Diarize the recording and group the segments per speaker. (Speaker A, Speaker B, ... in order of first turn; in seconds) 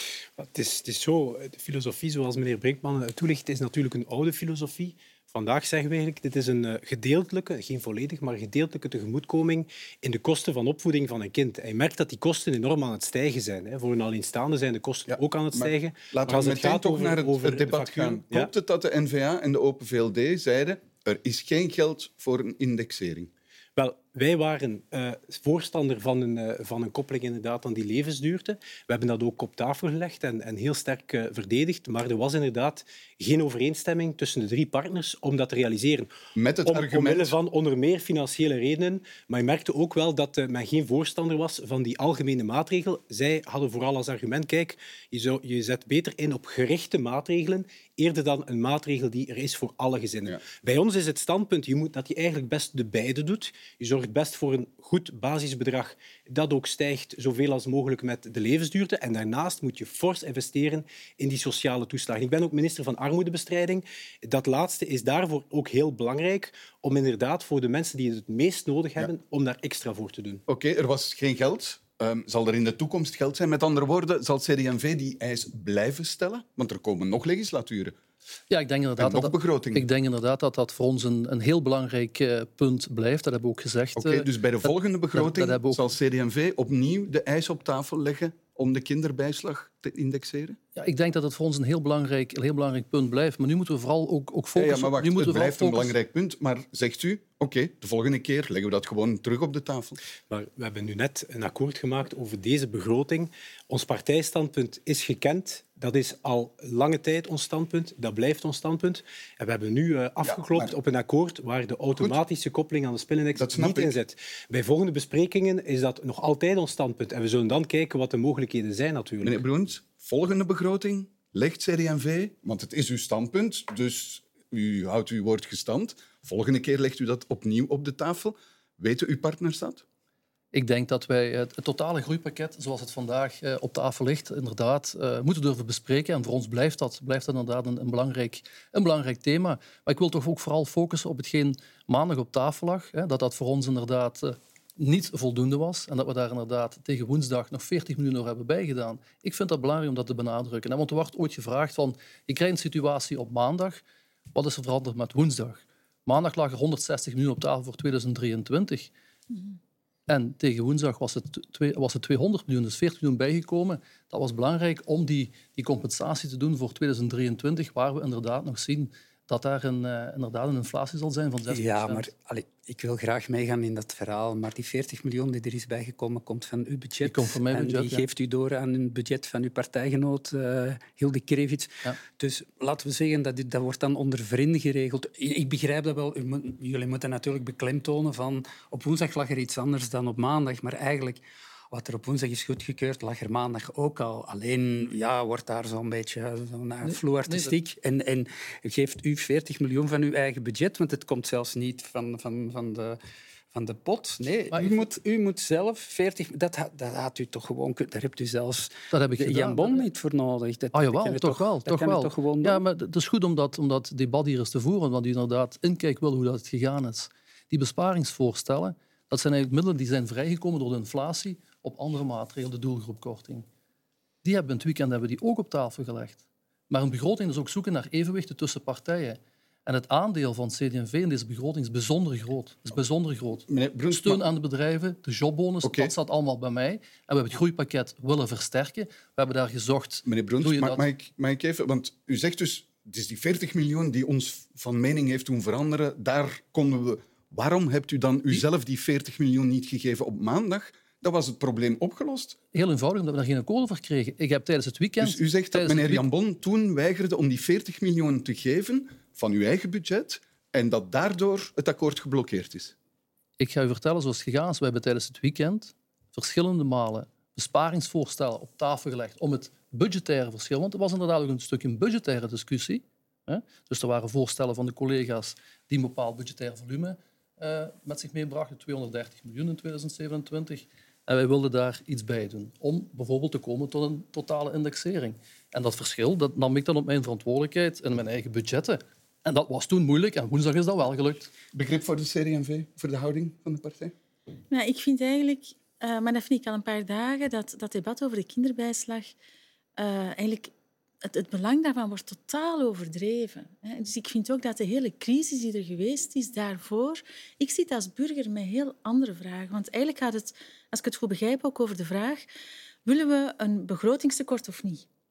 Speaker A: 0.4-18.5, 23.8-36.1, 36.7-70.4, 100.3-119.4
Speaker B: 15.1-23.3, 36.4-37.4, 70.5-78.0, 79.0-79.8, 84.0-90.6, 94.6-100.0, 110.2-110.7, 113.4-114.0, 119.2-129.8, 233.5-234.2, 235.6-235.9, 240.1-252.4, 255.0-262.7, 291.5-293.9
Speaker C: 78.5-85.8, 90.8-95.9, 130.5-153.8, 154.3-158.9, 160.1-172.0, 177.0-178.1, 196.8-197.6, 208.9-209.8, 210.7-223.5, 224.2-240.8, 252.5-256.0, 263.4-291.3
Speaker D: 171.5-203.0, 203.5-212.6
Speaker E: 294.5-299.1, 299.8-300.5, 301.0-312.2, 312.9-314.8